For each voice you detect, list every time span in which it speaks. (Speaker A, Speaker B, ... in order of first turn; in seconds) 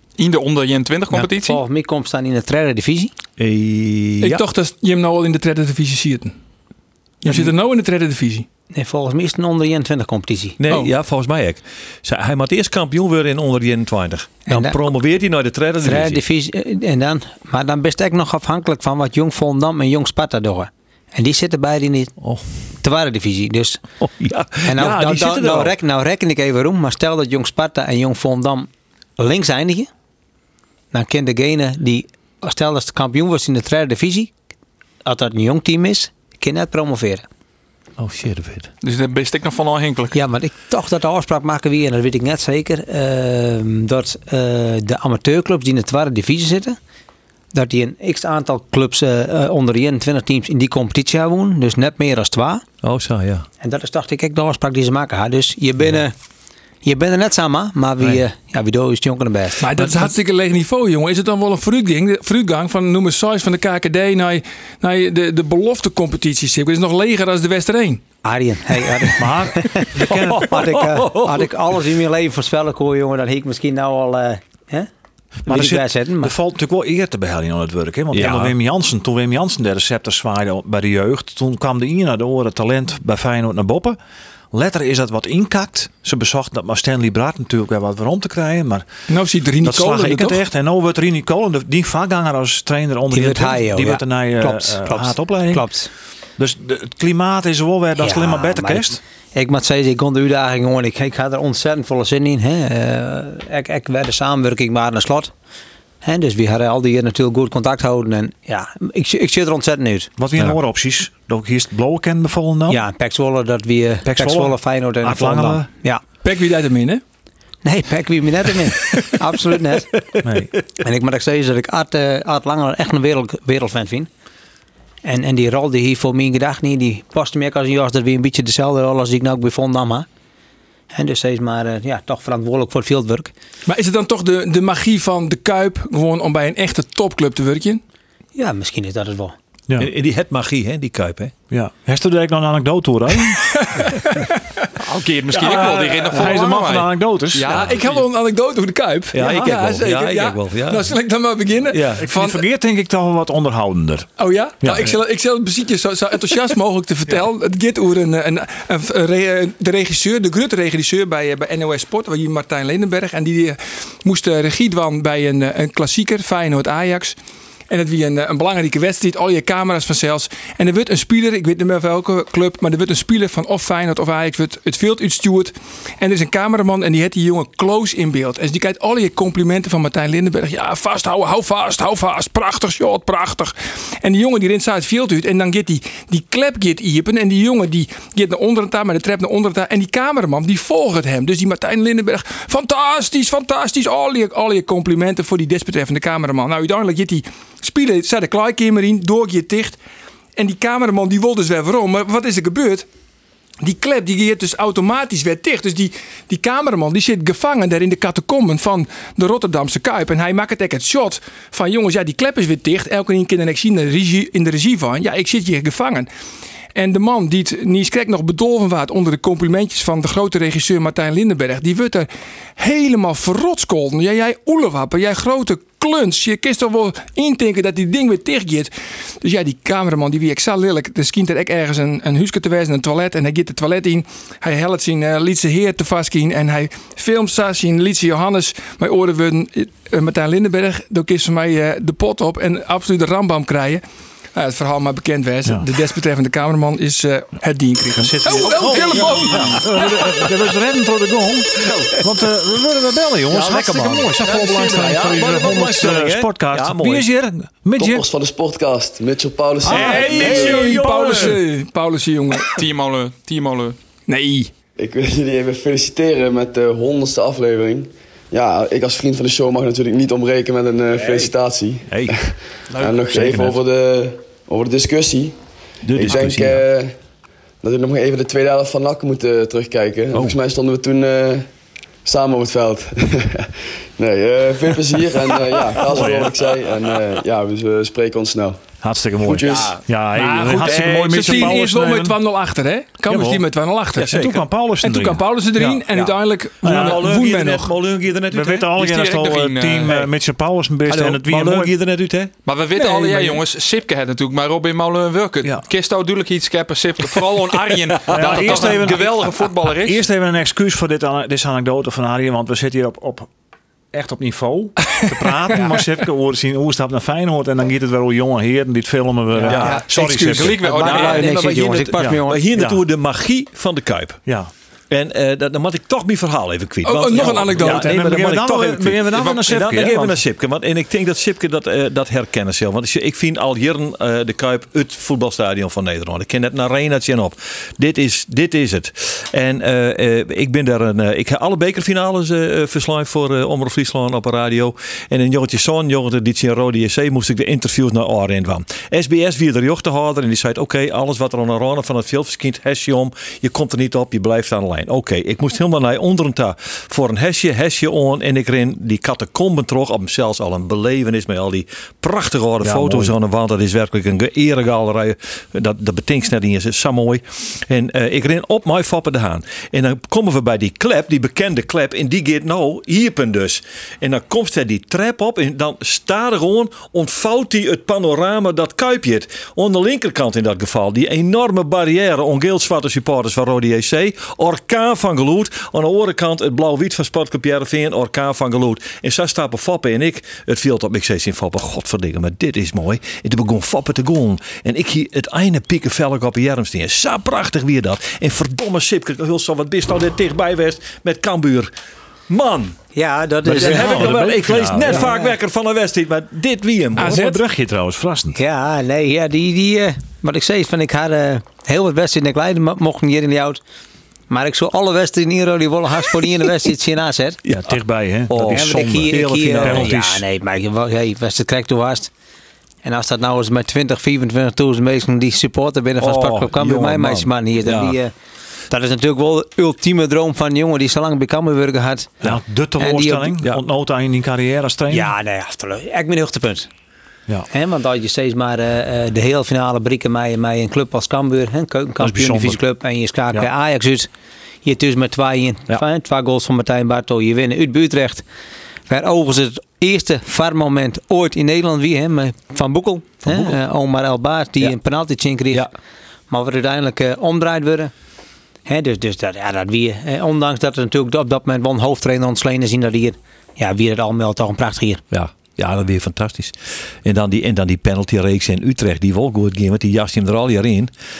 Speaker A: 0.2-1.6, 38.8-40.2, 144.8-148.1, 262.5-263.8, 298.7-300.0, 302.4-310.0, 320.0-321.6, 329.1-329.4
Speaker B: 1.1-3.1, 8.7-10.6, 14.5-14.8, 15.8-22.1, 22.8-23.8, 24.6-28.7, 29.2-29.9, 30.9-34.3, 35.0-37.2, 40.1-46.8, 47.5-52.6, 53.6-56.1, 56.8-59.9, 68.2-74.9, 75.5-76.3, 93.1-95.9, 98.0-105.3, 106.0-110.1, 112.7-116.0, 117.6-119.9, 120.8-124.1, 125.0-130.1, 130.9-133.3, 138.3-139.3, 319.4-319.8, 320.6-322.4, 402.9-404.3, 404.9-405.3, 408.3-413.6, 414.3-417.4, 418.5-422.1, 422.8-428.1, 428.7-432.1, 432.8-433.4, 434.9-436.7, 437.5-444.1, 444.6-448.2, 448.9-455.7, 456.3-457.9, 458.6-465.0
Speaker C: 3.4-4.4, 10.6-16.2, 24.0-25.7, 38.0-38.7, 52.8-53.5, 70.1-71.5, 78.1-78.5, 139.8-141.3, 149.1-150.9, 151.7-152.0, 248.8-249.5, 251.6-252.0, 253.3-257.1, 259.6-261.4, 271.0-271.3, 271.9-272.1, 272.7-273.6, 275.9-276.6, 285.8-286.3, 290.6-291.5, 293.9-294.4, 296.6-298.7, 300.9-302.3, 308.0-308.7, 319.5-319.8, 320.8-324.2, 324.9-401.7, 402.3-402.8, 403.4-407.3, 417.4-417.7, 418.3-419.9, 426.0-428.0, 453.2-453.6, 465.1-470.9
Speaker D: 4.2-6.3, 7.2-8.4, 59.6-68.0, 89.1-90.4, 116.2-117.0, 133.7-137.8, 143.5-144.3, 147.5-152.4, 154.2-167.2, 167.7-199.8, 200.3-202.9, 203.6-216.1, 216.7-243.8, 244.3-250.1, 259.8-262.6, 264.1-264.5, 290.1-297.7, 302.7-303.4, 319.9-320.6, 326.8-328.1, 407.0-407.4
Speaker E: 69.2-70.5, 75.5-84.0, 84.5-88.9, 89.6-95.7, 96.4-99.0, 110.2-112.8, 114.0-115.7, 120.2-120.5, 141.5-143.4, 145.3-147.7, 152.0-154.1, 154.6-154.9, 247.9-258.1, 259.6-261.4, 288.8-292.2, 293.1-293.4, 294.1-296.1, 296.6-297.1, 298.3-301.7, 308.1-309.3, 309.8-313.3, 313.9-320.6, 322.0-322.8, 327.5-330.2, 362.6-363.1, 403.4-405.1, 406.9-408.4, 417.6-420.2, 432.2-435.1, 442.0-442.6
Speaker F: 257.8-260.6, 264.8-275.4, 275.9-276.9, 277.6-281.4, 282.0-288.6, 289.2-289.8